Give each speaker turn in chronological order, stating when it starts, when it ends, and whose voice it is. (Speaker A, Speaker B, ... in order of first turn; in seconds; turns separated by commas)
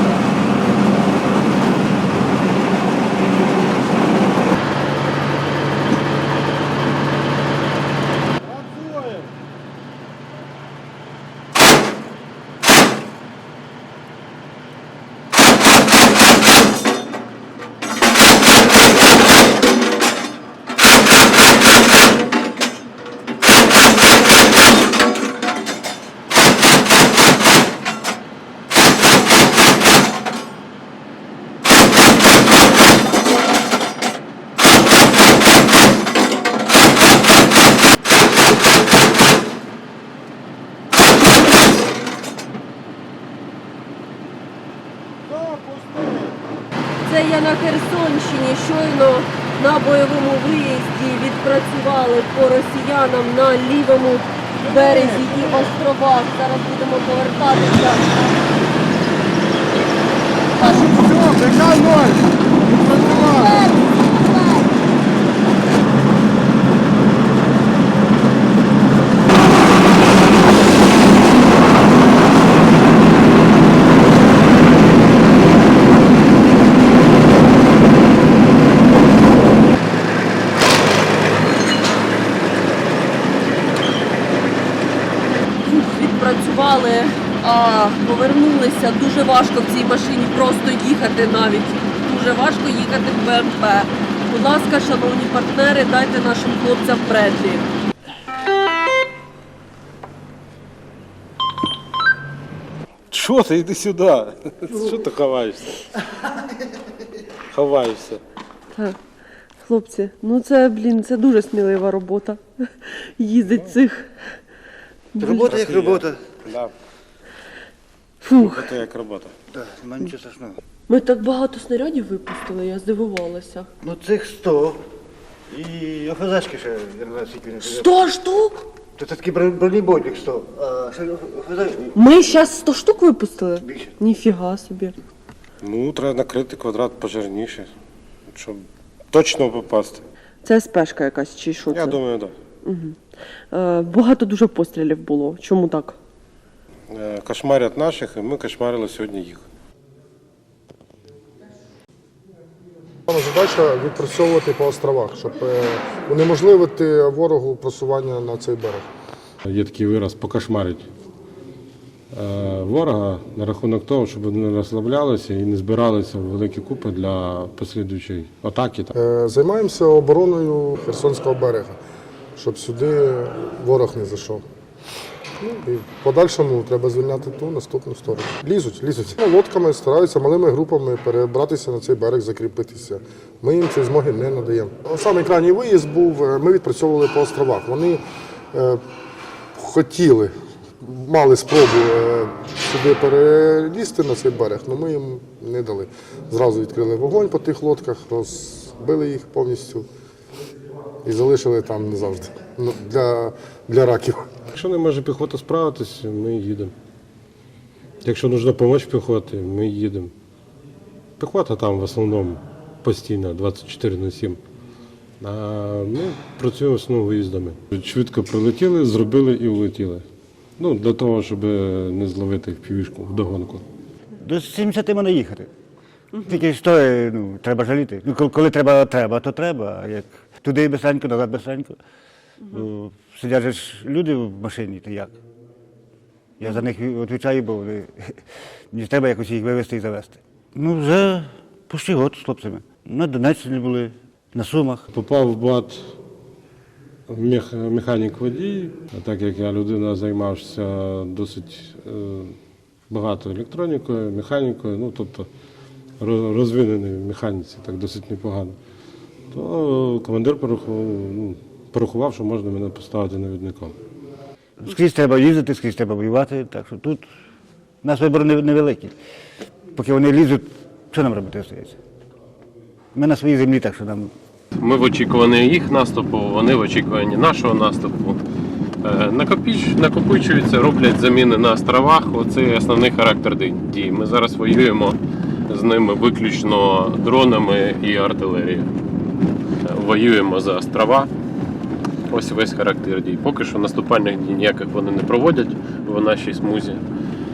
Speaker A: 45.7-46.0, Speaker B: 47.0-58.1, Speaker A: 54.7-55.2, Speaker B: 60.6-61.1, Speaker A: 61.2-62.1, Speaker B: 62.8-63.7, Speaker B: 85.6-97.7, Speaker A: 103.1-105.8, Speaker A: 107.5-108.2, Speaker B: 108.7-109.0, Speaker B: 109.6-114.4, Speaker A: 113.5-113.8, Speaker B: 115.1-115.5, Speaker C: 115.2-116.2, Speaker A: 115.4-116.7, Speaker B: 118.2-118.7, Speaker A: 118.3-119.3, Speaker C: 119.5-120.6, Speaker B: 120.9-123.7, Speaker C: 123.8-124.8, Speaker C: 125.5-127.9, Speaker B: 127.6-128.6, Speaker C: 129.0-132.0, Speaker B: 131.9-134.9, Speaker C: 133.6-133.9, Speaker A: 135.6-137.7, Speaker A: 138.3-140.0, Speaker B: 140.4-142.0, Speaker A: 141.7-142.3, Speaker B: 142.6-146.0, Speaker A: 146.9-149.4, Speaker D: 153.1-158.8, Speaker A: 159.4-160.9, Speaker A: 162.1-168.9, Speaker D: 168.9-171.8, Speaker D: 172.3-174.4, Speaker D: 175.4-188.0, Speaker D: 188.5-188.8, Speaker D: 189.5-199.8, Speaker D: 201.0-204.3, Speaker A: 204.5-206.7, Speaker A: 208.0-210.1, Speaker A: 211.2-214.4, Speaker A: 215.2-220.0, Speaker A: 220.6-223.6, Speaker C: 224.2-225.5, Speaker B: 226.1-226.4, Speaker C: 226.2-231.8, Speaker C: 232.5-235.2, Speaker C: 236.4-244.8, Speaker A: 244.9-246.0, Speaker A: 247.1-252.4, Speaker A: 252.9-255.3, Speaker A: 256.0-258.6, Speaker A: 259.3-263.8, Speaker C: 264.6-267.1, Speaker C: 267.8-268.9, Speaker C: 269.7-271.8, Speaker C: 272.9-274.1, Speaker E: 274.5-278.2, Speaker E: 278.8-288.7, Speaker E: 289.6-291.1, Speaker E: 292.1-296.8